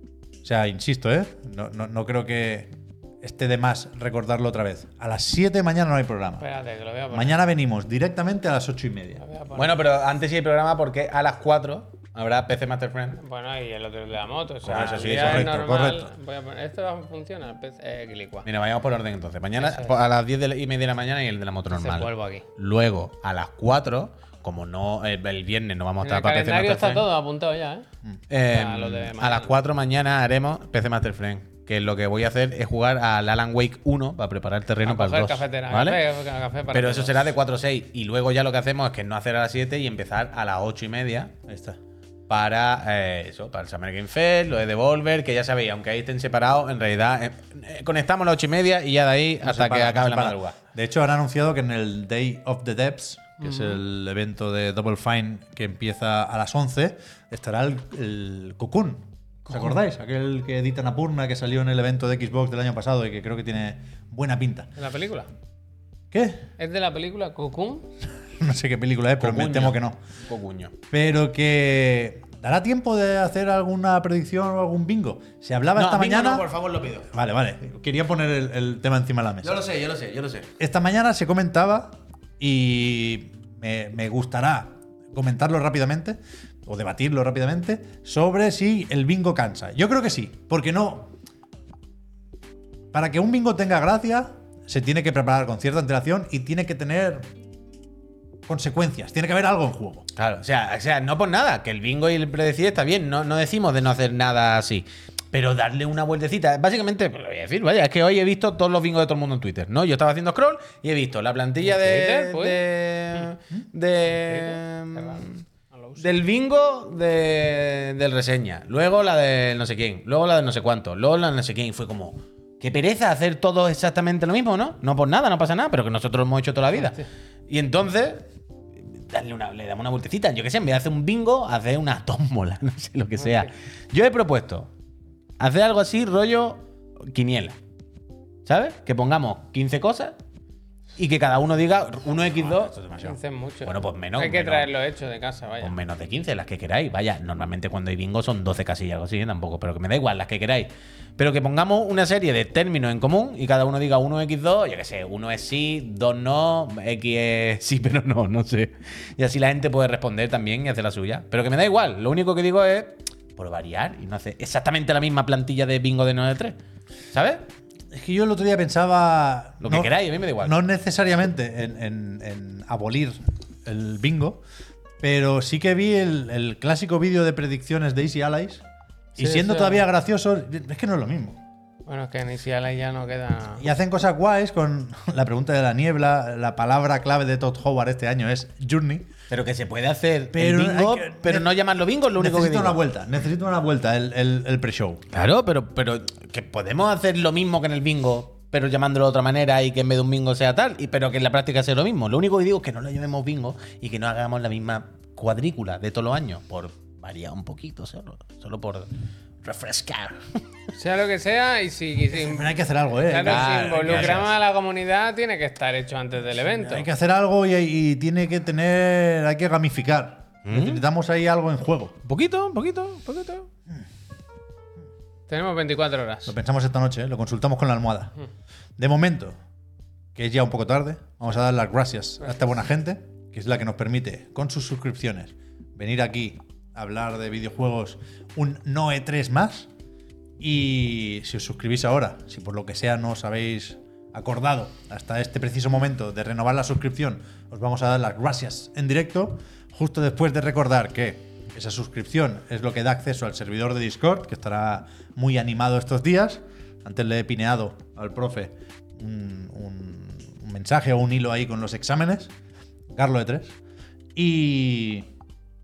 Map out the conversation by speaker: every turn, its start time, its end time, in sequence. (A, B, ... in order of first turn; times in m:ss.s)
0:00.4-0:02.7 A
0:03.2-0:06.4 A
0:06.4-0:07.4 B
0:07.1-0:09.2 A
0:09.2-0:09.7 B
0:09.5-0:13.2 C
0:13.2-0:18.5 B
0:14.6-0:15.5 C
0:14.9-0:16.1 A
0:18.4-0:27.1 C
0:19.6-0:20.0 B
0:21.7-0:22.4 B
0:26.0-0:27.8 B
0:28.3-0:36.0 C
0:28.5-0:29.5 B
0:34.8-0:37.3 B
0:36.7-0:41.3 C
0:41.5-0:41.8 A
0:42.3-0:50.6 C
0:49.4-1:04.7 A
0:53.4-0:53.7 B
1:04.8-1:05.3 B
1:06.1-1:06.4 A
1:06.6-1:07.9 B
1:08.4-1:10.0 A
1:09.2-1:10.7 C
1:10.9-1:16.5 A
1:15.8-1:17.1 C
1:17.1-1:19.6 A
1:19.4-1:20.5 C
1:20.6-1:31.1 A
1:32.9-1:37.2 A
1:38.5-1:40.0 A
1:40.2-1:55.4 C
1:51.6-1:52.6 B
1:54.1-1:56.1 B
1:56.0-2:08.2 C
2:06.7-2:07.0 B
2:08.8-2:14.7 C
2:13.2-2:13.5 B
2:15.4-2:17.6 C
2:18.4-2:20.2 C
2:21.0-2:24.7 C
2:23.0-2:25.8 B
2:25.6-2:46.6 C
2:47.1-2:47.4 C
2:47.9-2:54.4 A
2:49.6-2:50.6 C
2:55.0-2:58.6 A
2:59.1-3:01.4 A
2:59.2-2:59.8 B
3:01.8-3:03.7 B
3:03.6-3:09.1 A
3:09.3-3:12.8 C
3:10.3-3:11.5 A
3:12.2-3:15.0 A
3:15.1-3:28.9 C
3:29.4-3:30.4 C
3:30.7-3:36.9 B
3:32.1-3:34.3 A
3:33.2-3:34.3 C
3:36.6-3:42.0 A
3:40.4-3:40.8 C
3:42.0-3:43.5 C
3:45.3-3:46.3 B
3:46.3-3:48.1 A
3:48.8-3:49.4 A
3:50.1-3:59.7 A
4:00.4-4:22.3 A
4:22.9-4:23.6 A
4:24.2-4:25.1 A